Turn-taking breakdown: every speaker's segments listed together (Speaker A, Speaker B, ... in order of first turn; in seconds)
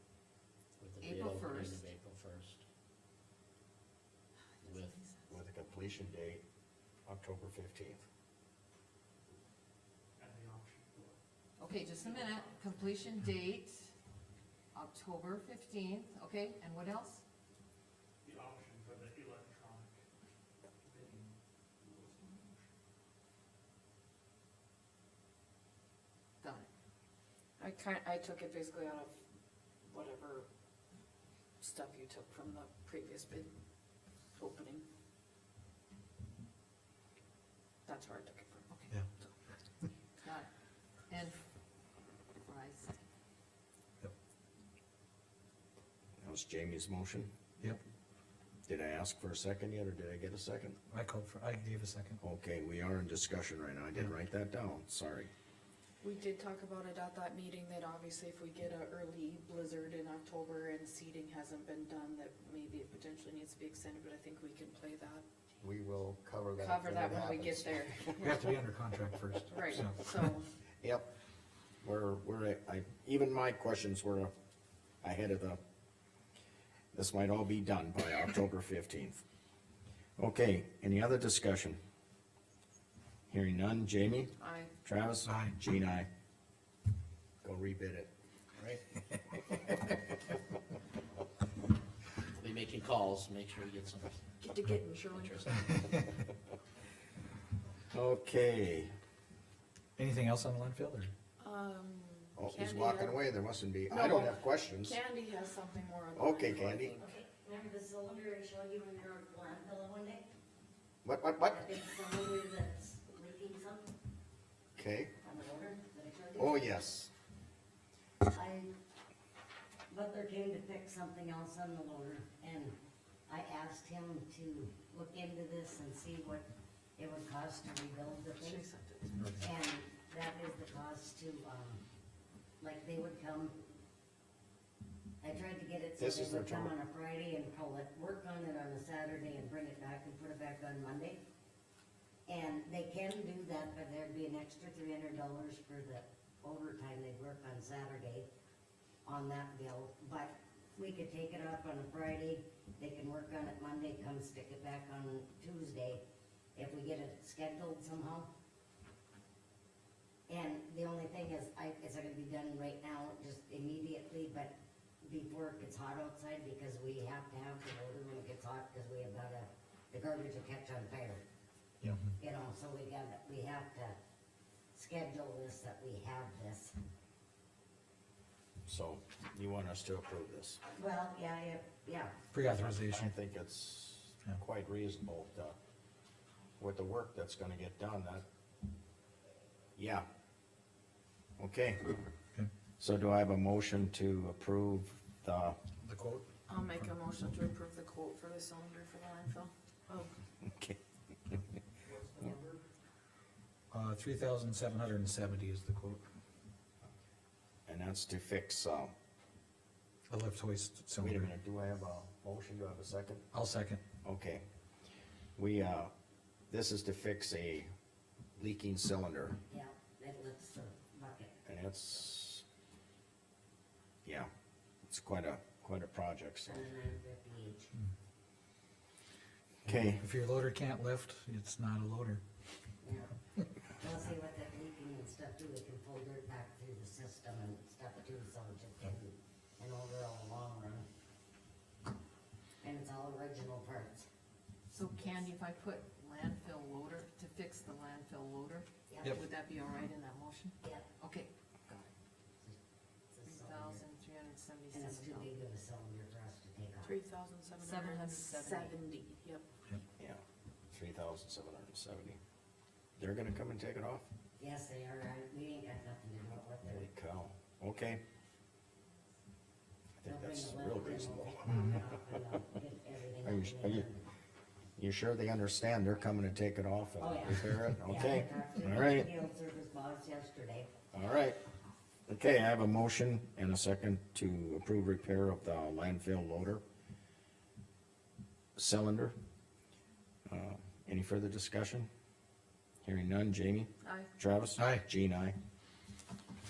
Speaker A: 0.8-2.6, 4.6-5.0, 88.6-88.9, 92.3-94.3, 95.1-96.2
Speaker B: 1.0-1.9, 4.6-5.1, 11.6-13.9, 14.7-17.2, 26.4-26.7, 40.2-40.5, 41.1-41.4, 42.4-43.0, 244.7-251.9, 253.3-255.4, 257.6-258.8
Speaker C: 5.3-6.4, 7.1-8.0, 46.2-47.3, 48.7-50.8, 52.2-55.3, 65.6-68.2, 70.8-71.1, 71.8-74.3, 75.0-75.6, 76.9-79.2, 80.2-81.8, 83.3-86.1, 87.4-88.1, 97.9-98.9, 102.4-105.0, 106.2-106.9, 111.0-111.6, 114.8-115.1, 116.4-117.1, 136.0-136.7, 178.7-180.6, 182.4-185.6, 186.6-188.2, 189.8-190.1, 191.4-192.0, 192.8-195.6, 200.4-200.8, 207.7-208.9, 211.0-213.2, 214.0-214.4, 215.4-215.9, 216.5-217.7, 218.4-219.4, 221.5-222.4, 224.1-224.3, 224.9-226.7, 229.7-230.0, 260.0-262.2, 263.0-264.1, 266.7-268.0, 270.0-271.7, 273.2-273.9, 274.8-279.1, 280.9-281.4, 282.1-286.6, 288.6-289.1, 290.3-291.9, 292.8-295.4
Speaker D: 10.2-11.2, 18.2-20.0, 20.8-22.7
Speaker E: 27.6-29.1, 29.9-30.5, 31.6-33.5, 34.4-34.9, 37.9-38.7, 56.0-65.2, 66.6-68.5, 69.5-70.5, 84.4-84.7, 94.4-95.6, 101.4-103.2, 103.9-107.0, 128.4-129.3, 196.5-200.1, 256.8-259.4, 293.8-294.1
Speaker F: 50.9-52.2, 68.1-70.4, 85.3-85.6, 95.7-96.0, 100.0-101.1, 129.2-129.5, 182.3-183.1, 195.8-196.9, 201.8-202.6, 203.7-206.1, 210.1-211.3, 213.3-213.8, 229.7-232.2, 294.6-294.8
Speaker G: 107.0-110.3, 111.4-113.9, 115.2-116.8, 118.2-118.7, 119.9-122.8, 123.3-128.6, 129.4-131.8, 132.6-133.6, 135.2-141.2, 142.3-148.3, 149.1-156.0, 156.6-158.3, 160.3-171.2, 172.0-174.0, 174.7-176.8, 180.8-182.2, 219.5-221.4, 226.5-227.7, 232.8-233.1, 233.8-240.9, 242.6-244.1, 248.9-249.2, 250.6-250.9, 253.1-253.9, 254.7-256.9, 264.4-266.9, 270.1-274.1, 277.0-280.7